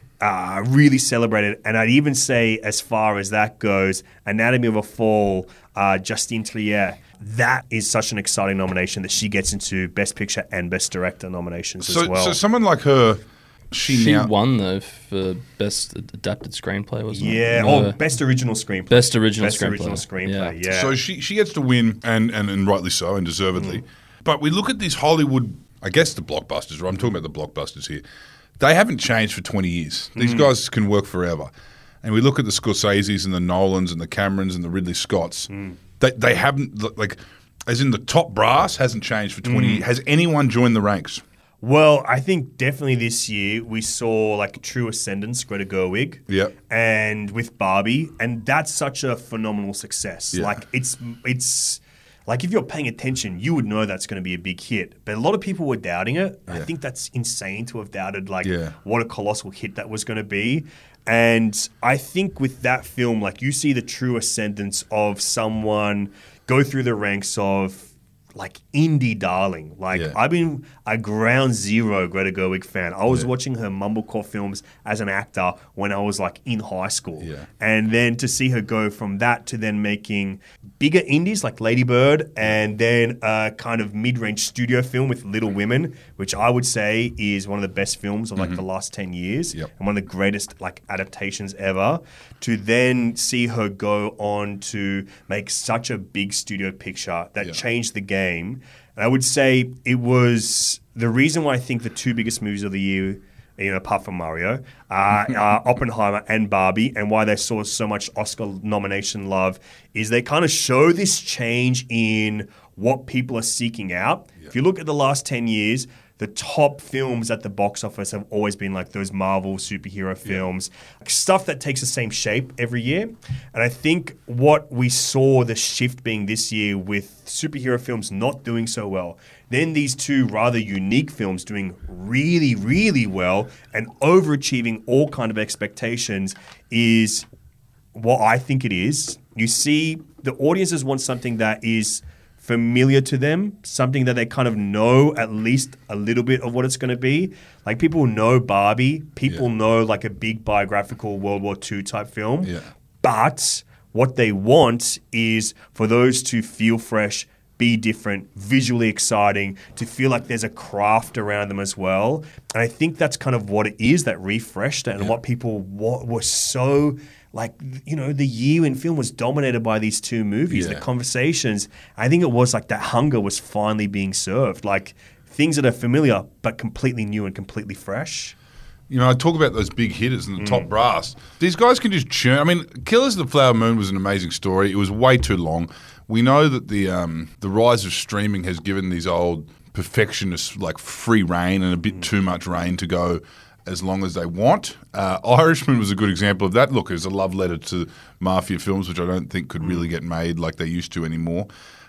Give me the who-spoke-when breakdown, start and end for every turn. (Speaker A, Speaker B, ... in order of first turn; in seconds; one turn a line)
Speaker A: 0.2-12.4
Speaker B: 11.8-14.3
Speaker C: 13.8-18.0
Speaker A: 17.1-20.9
Speaker C: 18.9-20.6
Speaker B: 20.7-28.0
Speaker A: 23.6-23.8
Speaker B: 28.6-31.5
Speaker A: 30.1-30.5
Speaker B: 32.0-35.5
Speaker A: 35.5-35.8
Speaker B: 36.0-41.2
Speaker A: 39.5-39.8
Speaker A: 41.6-137.3
Speaker B: 50.3-50.6
Speaker B: 58.4-58.7
Speaker B: 77.2-77.5
Speaker B: 88.4-88.6
Speaker A: 137.9-178.4
Speaker B: 170.5-170.9
Speaker B: 178.9-201.5
Speaker A: 180.4-180.7